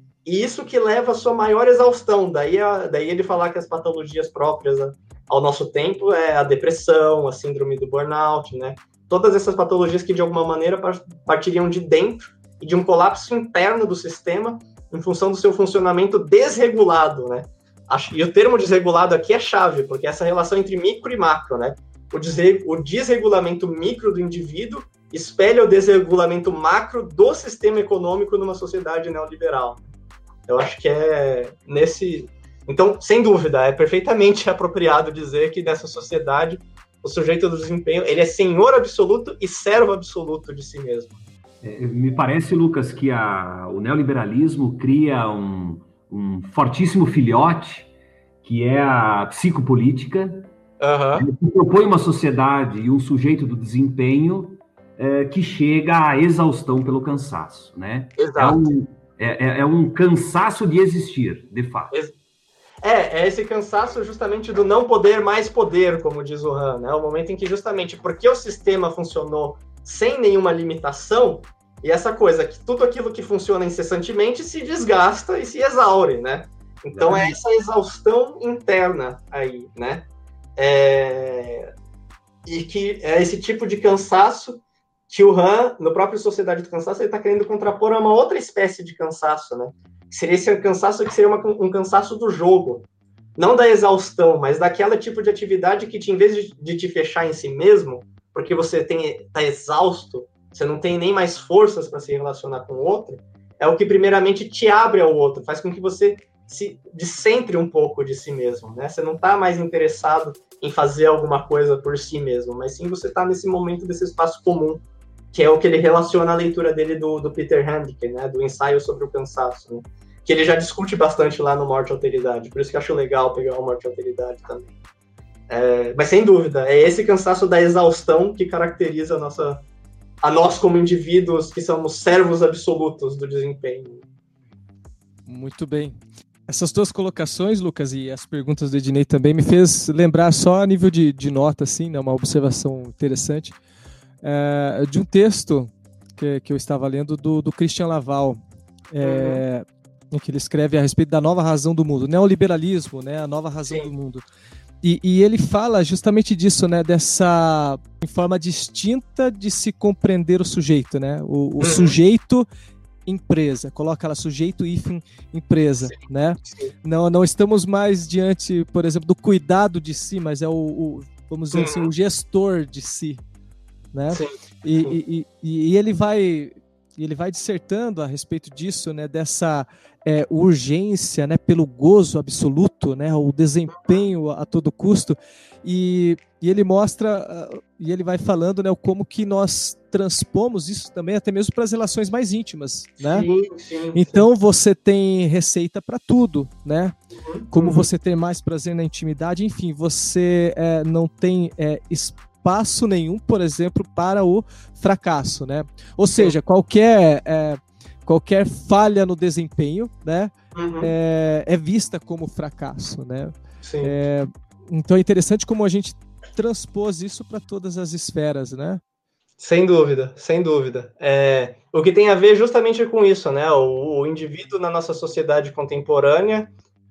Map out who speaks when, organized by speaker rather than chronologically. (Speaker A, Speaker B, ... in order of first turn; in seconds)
Speaker A: 0.2-29.8, 30.5-41.2, 50.8-51.3, 58.2-58.7, 62.8-81.7, 82.5-124.7, 125.5-129.6, 130.2-134.1, 149.0-149.4, 153.7-153.9, 161.6-162.0, 165.9-166.7, 171.5-171.9, 174.1-175.0, 183.7-184.0, 193.0-194.3, 197.2-197.9, 210.5-210.9, 213.6-213.9, 219.4-226.5
Speaker B: 41.6-47.9, 48.4-50.5, 51.2-61.9, 76.9-77.3
Speaker C: 135.3-143.6, 144.2-148.4, 148.9-154.2, 154.8-162.5, 163.1-173.2, 173.9-193.3, 193.9-196.9, 197.5-218.8